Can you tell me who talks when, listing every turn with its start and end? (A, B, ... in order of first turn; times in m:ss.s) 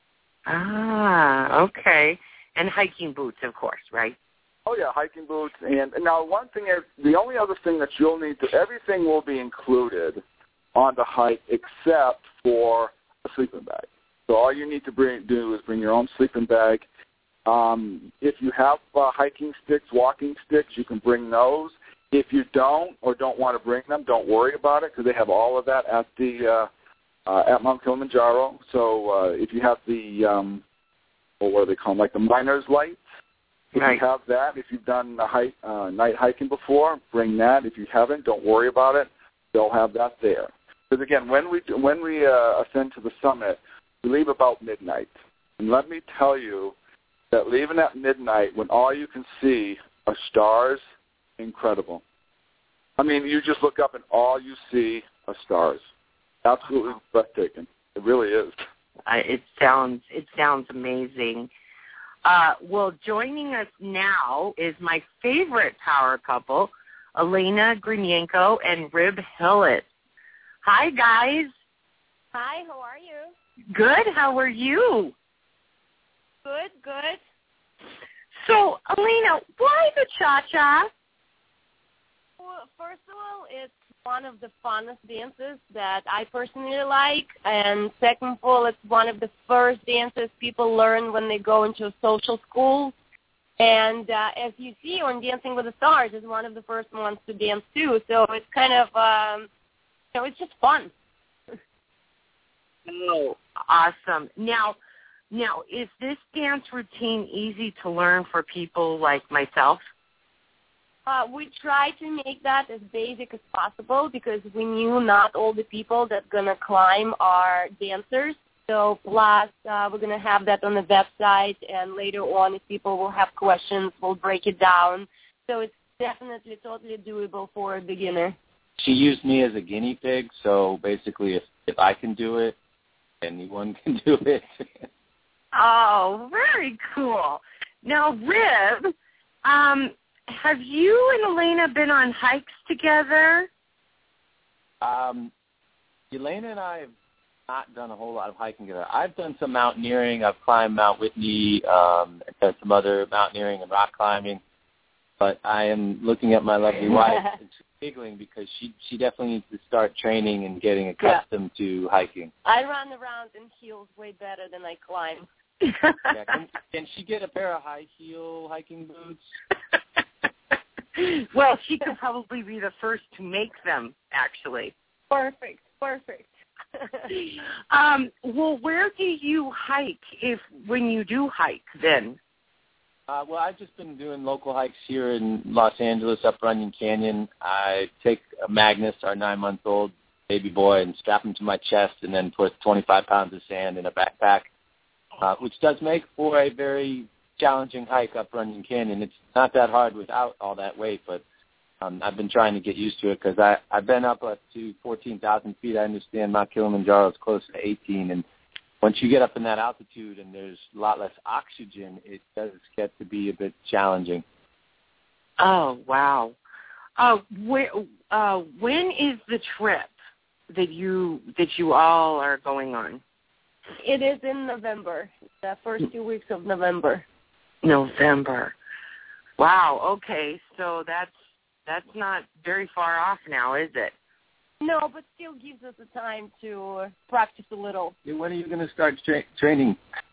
0:00.5-0:04.2 A
0:04.6-0:10.2 B
0:10.7-0:16.8 B
0:17.4-0:26.7 B
0:27.2-0:30.6 B
0:31.4-0:33.0 B
0:33.7-0:46.8 B
0:33.7-0:34.0 A
0:47.3-0:50.8 B
0:51.4-0:52.0 B
0:53.0-0:55.8 B
0:56.4-0:58.6 B
0:59.0-1:01.5 A
1:02.2-1:09.9 A
1:10.6-1:11.5 A
1:12.3-1:13.3 C
1:13.7-1:15.1 A
1:16.4-1:17.2 C
1:18.4-1:20.9 A
1:22.4-1:32.9 C
1:33.6-1:39.5 C
1:40.1-1:40.9 C
1:42.9-1:44.8 A
1:45.3-1:49.8 A
1:51.0-2:08.4 C
2:08.8-2:12.6 D
2:13.2-2:14.8 D
2:15.5-2:18.9 A
2:19.4-2:23.5 A
2:24.8-2:25.3 D
2:26.1-2:26.9 D
2:27.5-2:34.4 D
2:35.2-2:42.3 D
2:36.9-2:37.2 C
2:42.4-2:45.9 C
2:46.1-2:49.2 D
2:51.0-2:54.7 A
2:55.1-2:57.1 C
2:57.1-3:02.2 A
3:03.1-3:14.5 D
3:15.2-3:21.2 D
3:21.8-3:28.2 D
3:28.8-3:34.2 D
3:35.4-3:36.4 A
3:37.0-3:39.9 A
3:40.5-3:43.0 A
3:43.8-3:47.0 C
3:47.6-3:48.5 A
3:49.4-3:51.1 A
3:51.6-3:53.9 A
3:54.6-3:57.9 C
3:58.0-3:59.8 D